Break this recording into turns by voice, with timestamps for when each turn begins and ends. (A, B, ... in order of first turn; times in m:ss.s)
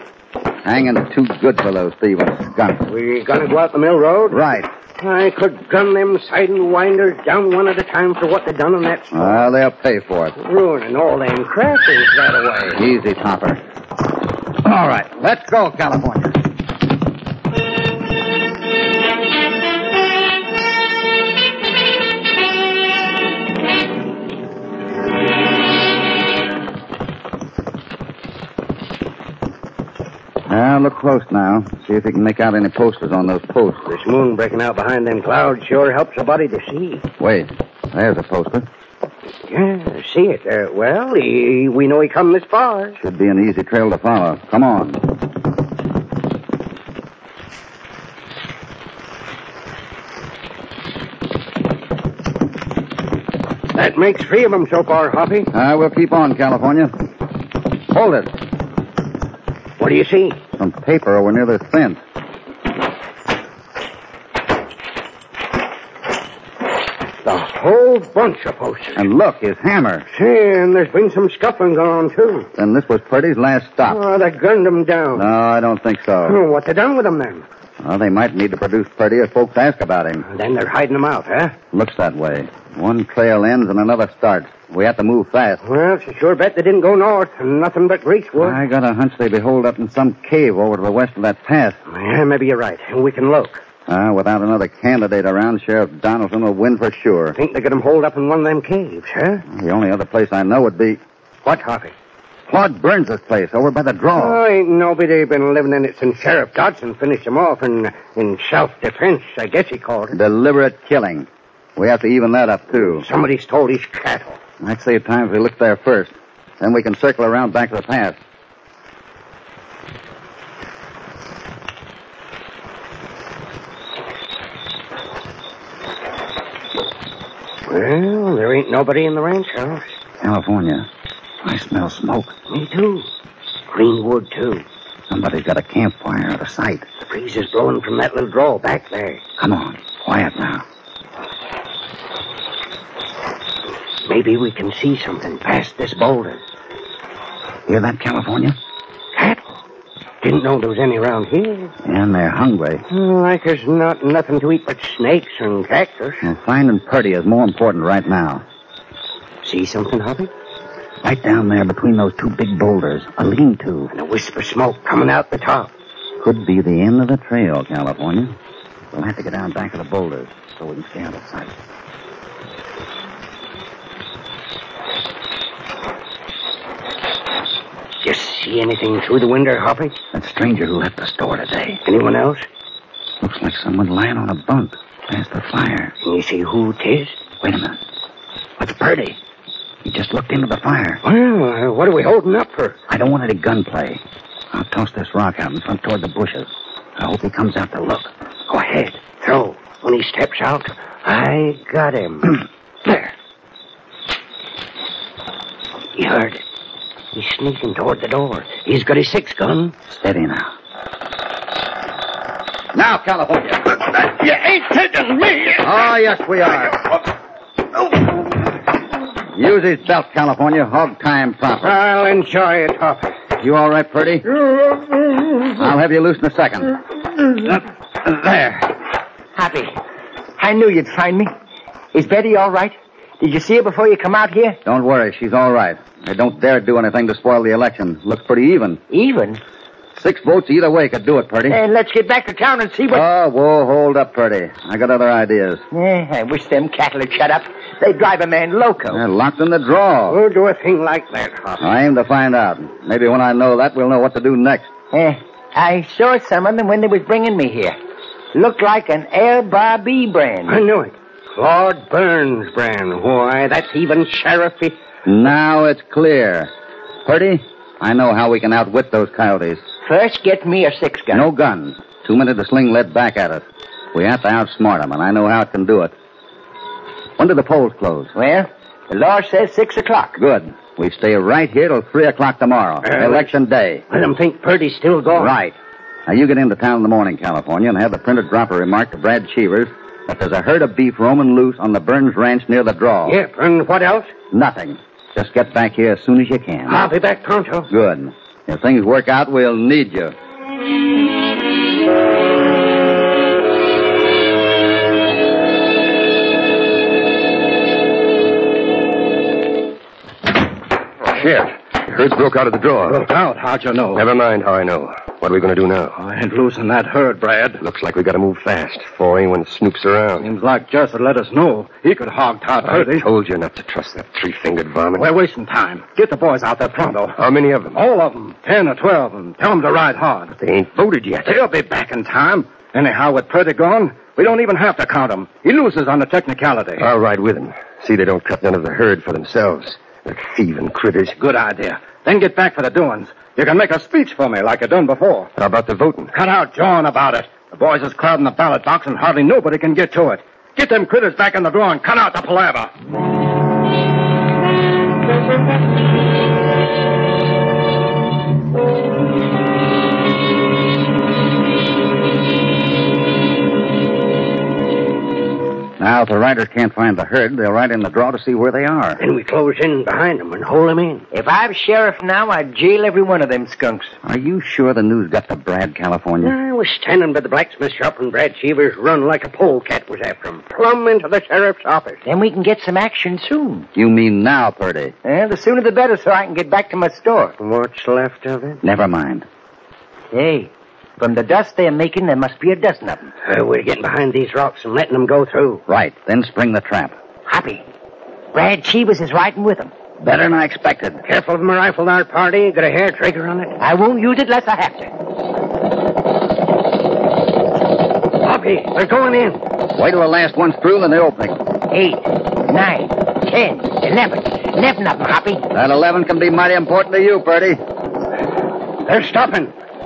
0:00.6-0:02.8 A
0:02.9-0:04.4 B
0:04.3-0:04.7 A
0:05.0-0:09.5 B
0:09.1-0:10.3 A
0:10.4-0:12.8 B
0:12.7-0:13.6 A
0:14.6-0:16.4 A
0:30.5-0:33.9 A
0:33.9-0:37.0 B
0:37.2-0:38.6 A
0:39.5-0:43.0 B
0:43.0-0:45.0 A
0:53.7-0:55.5 B
0:55.5-0:56.9 A
0:57.9-0:58.3 A
0:59.8-1:00.4 B
1:00.5-1:02.0 A
1:07.2-1:09.1 B
1:09.0-1:10.1 A
1:10.1-1:12.5 B
1:12.6-1:14.0 A
1:13.8-1:15.3 B
1:15.1-1:16.4 A
1:16.2-1:17.4 B
1:17.8-1:20.2 A
1:20.3-1:21.6 B
1:21.7-1:25.6 A
1:25.6-1:28.6 B
1:28.4-1:31.8 A
1:31.9-1:33.6 B
1:33.9-1:37.4 A
1:37.4-1:39.4 B
1:39.5-1:41.0 A
1:41.4-1:41.9 B
1:42.5-1:44.4 A
1:44.1-1:50.2 B
1:50.1-1:53.0 A
1:52.7-1:54.4 B
1:54.6-1:58.2 A
2:07.7-2:09.9 B
2:10.2-2:10.9 A
2:11.4-2:12.3 A
2:12.5-2:13.0 B
2:13.7-2:14.6 B
2:15.1-2:16.9 A
2:17.0-2:19.2 B
2:19.4-2:20.6 A
2:24.0-2:26.4 B
2:27.7-2:28.6 A
2:29.1-2:29.6 B
2:30.2-2:31.7 B
2:31.8-2:32.8 A
2:32.9-2:36.3 B
2:36.2-2:38.4 A
2:39.4-2:40.3 B
2:41.0-2:43.9 A
2:43.9-2:45.7 B
2:46.2-2:48.3 A
2:48.9-2:51.5 A
2:58.0-3:00.0 B
3:00.1-3:01.8 A
3:01.8-3:02.4 B
3:03.2-3:05.9 A
3:06.0-3:07.2 B
3:07.4-3:07.8 A
3:08.6-3:09.2 A
3:09.8-3:11.0 A
3:11.0-3:12.8 B
3:12.9-3:14.0 A
3:14.5-3:18.1 A
3:18.5-3:23.1 B
3:25.9-3:26.4 B
3:27.1-3:29.7 B
3:29.9-3:30.5 A
3:32.7-3:33.7 A
3:33.7-3:35.9 B
3:35.6-3:36.8 A
3:39.3-3:41.8 A
3:41.6-3:43.2 B
3:43.4-3:44.2 A
3:45.5-3:48.7 A
3:49.3-3:49.7 C
3:50.4-3:51.3 C
3:51.9-3:54.6 C
3:54.6-3:58.8 A
3:58.9-3:59.4 C
3:59.9-4:01.6 A
4:01.5-4:03.0 C
4:02.9-4:05.6 A
4:05.7-4:09.0 C
4:08.9-4:10.2 A
4:10.1-4:11.7 B
4:11.6-4:14.7 A
4:14.9-4:17.8 C
4:18.3-4:20.6 C
4:20.5-4:24.8 B
4:25.0-4:26.5 A
4:27.0-4:29.6 A
4:29.8-4:31.2 C
4:31.1-4:35.9 A
4:37.2-4:38.1 A
4:38.2-4:40.2 C
4:40.2-4:43.8 A
4:42.8-4:43.3 B
4:43.9-4:45.4 B
4:45.1-4:45.6 A
4:46.1-4:53.2 A
4:53.0-4:54.1 B
4:54.3-4:56.8 A
4:56.7-4:57.7 B
4:57.7-5:00.1 A
5:11.0-5:13.1 D
5:12.9-5:14.0 E
5:13.9-5:16.0 D
5:16.0-5:17.6 E
5:17.6-5:20.3 D
5:20.2-5:23.1 E
5:22.6-5:25.1 D
5:25.0-5:27.2 E
5:27.2-5:27.8 D
5:27.7-5:30.3 E
5:30.4-5:31.4 D
5:31.2-5:36.9 E
5:36.8-5:41.2 D
5:41.2-5:45.3 E
5:45.4-5:46.1 D
5:46.1-5:52.7 E
6:05.8-6:09.0 A
6:09.0-6:11.0 B
6:11.1-6:13.9 C
6:14.0-6:16.3 A
6:16.2-6:22.0 B
6:22.0-6:23.7 C
6:23.7-6:24.9 A
6:25.0-6:27.3 C
6:27.4-6:28.6 B
6:28.6-6:29.2 A
6:30.1-6:33.1 C
6:33.2-6:35.6 B
6:35.7-6:37.0 A
6:37.3-6:37.6 C
6:38.3-6:39.7 C
6:40.0-6:41.0 A
6:41.0-6:43.6 B
6:43.6-6:44.9 C
6:48.2-6:49.4 B
6:49.7-6:51.4 A
6:51.7-6:55.4 C
6:55.5-6:57.6 A
6:58.8-6:59.5 B